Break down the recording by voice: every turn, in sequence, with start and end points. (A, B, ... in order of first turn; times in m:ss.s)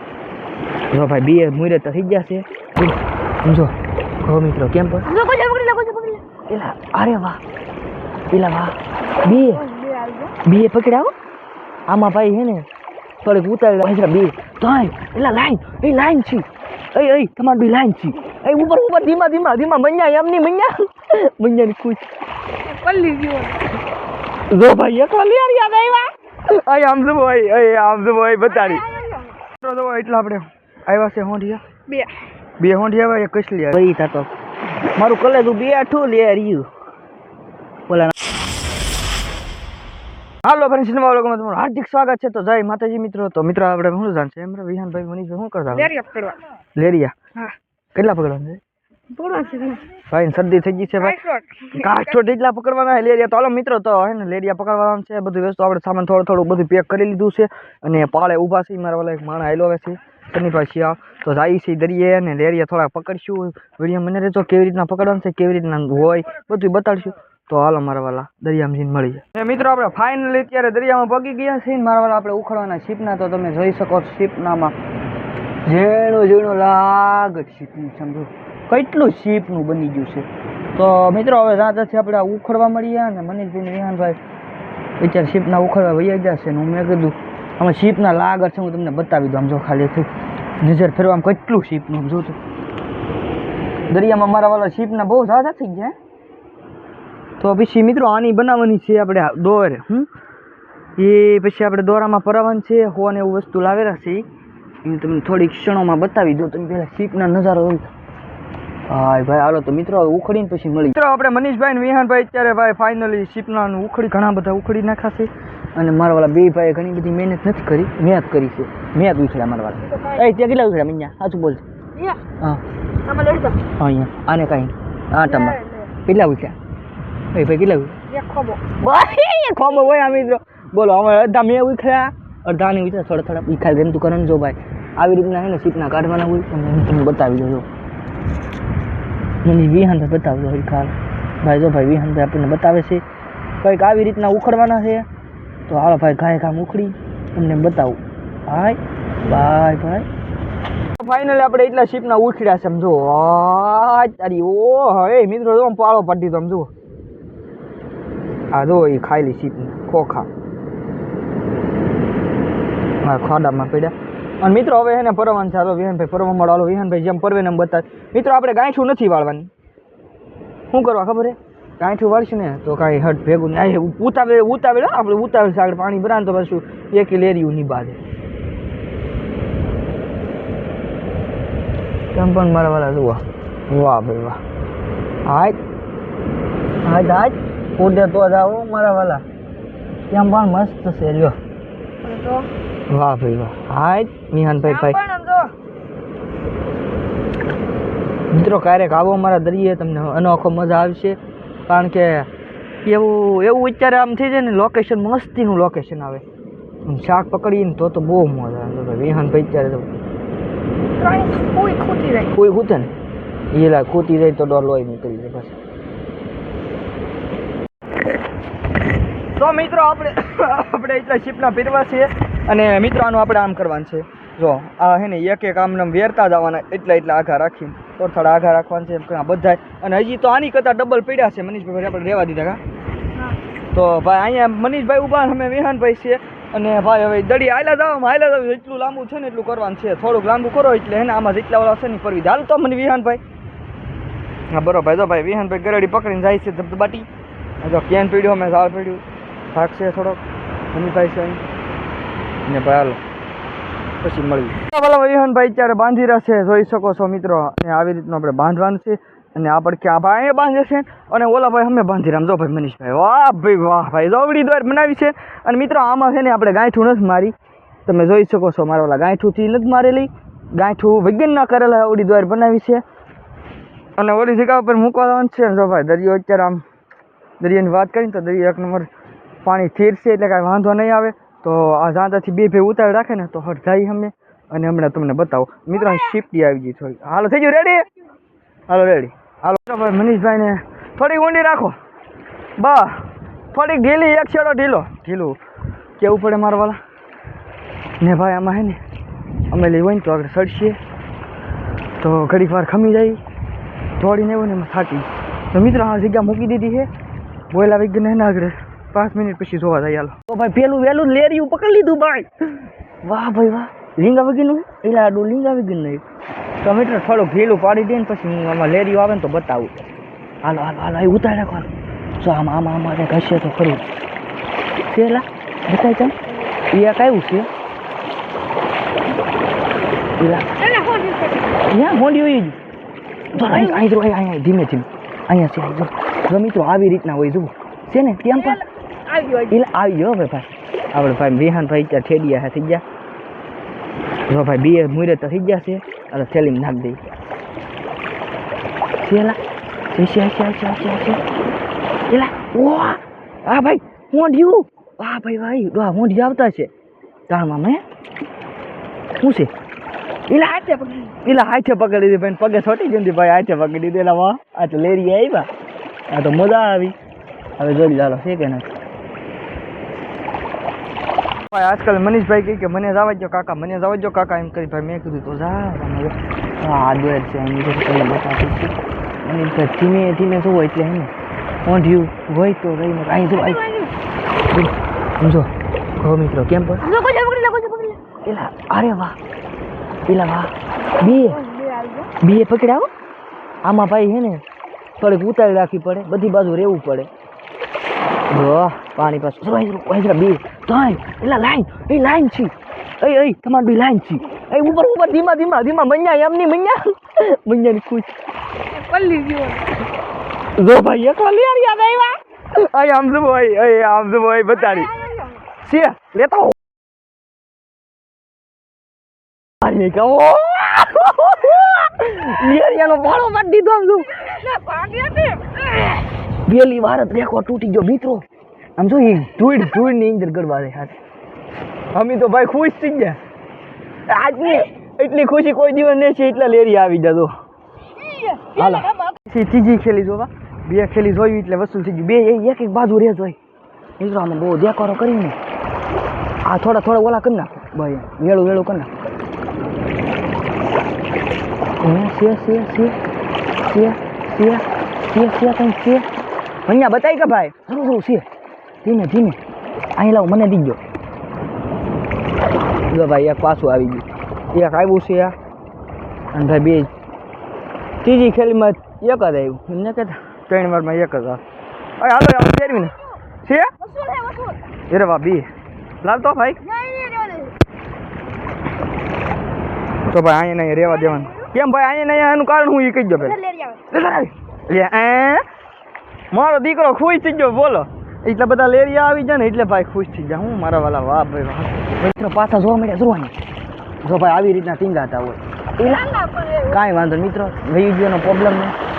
0:00.9-0:03.7 A
0:04.3-0:05.1 A
0:05.1-0:06.2 B
0:06.5-0:07.4 A
0:08.3-0:09.6 A
0:09.2-0:10.3 B
0:10.4-0:11.1 A
0:11.9-0:12.7 A
0:13.2-0:22.0 A
0:22.6-0:23.7 B
0:24.5-0:28.9 A
0:28.5-0:29.4 B
0:29.6-0:31.6 A
0:31.9-0:32.2 B
0:32.6-0:34.3 A
0:35.0-0:36.7 A
0:37.9-0:38.1 A
0:40.4-0:45.9 A
0:45.7-0:46.4 B
0:46.8-0:47.2 A
0:48.0-0:48.6 A
0:49.1-0:49.9 B
0:50.1-0:51.2 A
0:51.0-0:52.2 B
0:51.7-1:14.8 A
1:15.7-1:24.2 A
1:25.0-1:32.4 A
1:33.9-1:35.9 A
1:37.4-1:40.1 A
1:41.0-1:44.3 A
1:44.8-1:47.9 A
1:48.9-2:01.6 A
1:59.9-2:00.3 B
2:03.0-2:03.6 B
2:03.8-2:06.6 A
2:05.3-2:05.9 B
2:07.3-2:08.0 A
2:08.1-2:08.6 B
2:08.8-2:17.7 A
2:19.4-2:23.0 A
2:23.6-2:25.1 A
2:25.7-2:30.1 A
2:31.0-2:36.7 A
2:38.5-2:40.3 A
2:43.0-2:49.5 A
2:50.7-2:58.0 A
3:02.1-3:04.4 A
3:05.2-3:05.6 A
3:06.8-3:09.2 A
3:10.1-3:11.4 A
3:12.0-3:12.5 B
3:12.9-3:15.0 A
3:14.7-3:15.5 B
3:18.3-3:22.3 A
3:22.8-3:26.2 A
3:26.8-3:29.9 A
3:31.0-3:32.3 B
3:32.3-3:32.9 A
3:33.5-3:35.6 A
3:39.4-3:52.6 A
3:53.7-4:03.2 A
4:04.5-4:07.1 A
4:07.6-4:10.2 A
4:10.7-4:11.4 A
4:12.5-4:13.0 A
4:14.0-4:27.3 A
4:27.9-4:32.8 A
4:34.0-4:36.6 A
4:37.4-4:38.9 A
4:39.4-4:47.9 A
4:48.7-4:51.8 A
4:52.6-4:55.4 A
4:56.0-4:56.8 A
4:58.0-4:58.8 A
4:59.5-5:00.8 A
5:02.0-5:03.2 A
5:04.0-5:06.9 A
5:07.5-5:12.3 A
5:13.0-5:16.0 A
5:16.6-5:19.9 A
5:20.4-5:23.8 A
5:24.9-5:26.2 A
5:26.7-5:27.5 A
5:30.2-5:30.5 A
5:30.5-5:31.6 B
5:31.7-5:32.6 A
5:33.3-5:38.6 A
5:38.3-5:39.5 B
5:39.5-5:42.8 A
5:44.3-5:47.1 A
5:49.0-5:49.4 A
5:49.9-5:51.2 A
5:52.1-5:56.7 A
5:57.3-5:57.8 A
5:59.2-5:59.5 A
6:00.3-6:05.5 A
6:00.4-6:01.1 B
6:06.1-6:07.0 A
6:07.6-6:08.7 A
6:11.5-6:21.1 A
6:21.7-6:23.6 A
6:23.3-6:23.9 B
6:24.5-6:25.5 A
6:26.0-6:26.8 A
6:26.8-6:28.0 B
6:28.3-6:29.2 A
6:30.1-6:31.4 A
6:31.0-6:32.1 B
6:32.2-6:32.9 A
6:33.6-6:34.4 A
6:35.0-6:37.1 A
6:38.3-6:48.1 A
6:48.7-6:49.7 B
6:50.6-6:54.9 A
6:54.6-6:55.4 B
6:55.6-6:56.6 A
6:59.6-7:04.2 A
7:04.1-7:06.0 B
7:06.5-7:08.2 A
7:08.8-7:11.0 A
7:11.9-7:13.2 A
7:14.1-7:17.3 A
7:18.0-7:19.0 B
7:18.5-7:23.4 A
7:24.0-7:25.4 A
7:26.4-7:28.9 A
7:31.8-7:33.0 A
7:33.7-7:36.1 A
7:36.7-7:38.2 A
7:38.8-7:39.4 A
7:40.0-7:40.8 A
7:42.9-7:45.4 A
7:46.3-7:46.9 A
7:48.0-7:51.4 A
7:52.0-7:53.7 A
7:53.8-7:54.6 B
7:54.9-7:55.5 A
7:56.0-7:56.6 A
7:56.6-7:57.6 B
8:00.1-8:03.4 A
8:01.1-8:01.5 B
8:03.2-8:03.8 B
8:03.9-8:05.4 A
8:06.3-8:13.3 A
8:14.0-8:18.8 A
8:15.8-8:16.8 B